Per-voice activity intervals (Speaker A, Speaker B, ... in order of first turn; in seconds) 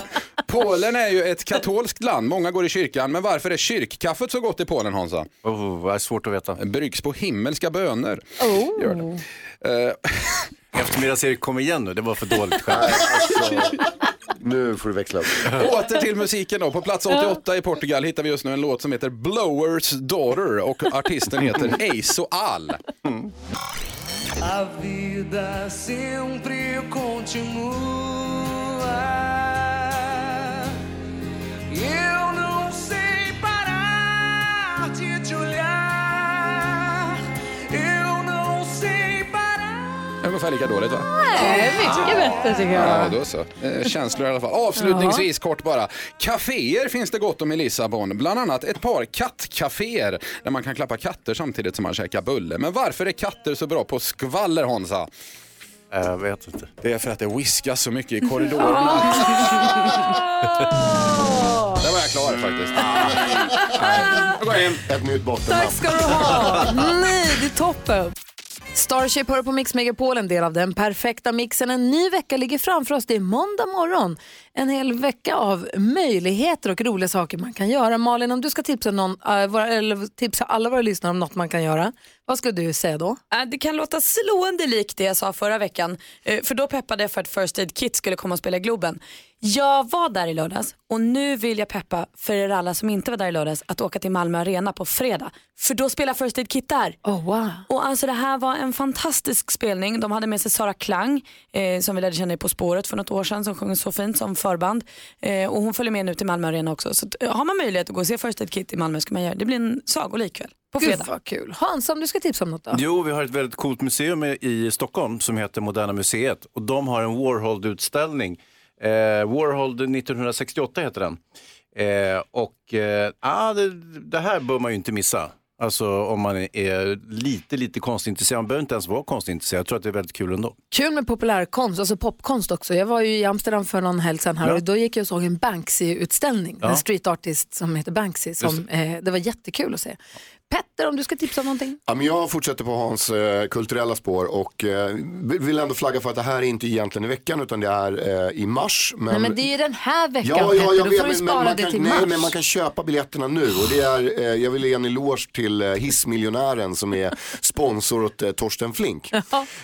Speaker A: 0.5-5.3, 6.6-8.2, 9.6-10.4, 15.5-22.8, 40.2-41.6, 42.7-55.1, 56.8-60.0, 61.8-62.8, 64.3-64.8
Speaker B: 5.5-6.6, 10.7-13.4, 55.9-56.7, 112.7-121.2, 121.8-130.6
Speaker C: 8.4-9.2, 41.1-43.1, 44.8-45.2, 61.0-61.7, 65.5-68.1, 68.8-83.2, 97.0-97.6, 110.8-112.8, 130.7-140.0, 140.5-141.8, 149.1-152.3
Speaker D: 12.7-13.8, 14.4-15.5, 63.0-64.2, 64.8-66.4, 141.9-149.4, 150.2-159.2
Speaker E: 24.6-28.4, 28.9-29.6, 31.7-36.7, 37.8-39.5
Speaker F: 83.3-97.0, 97.7-111.1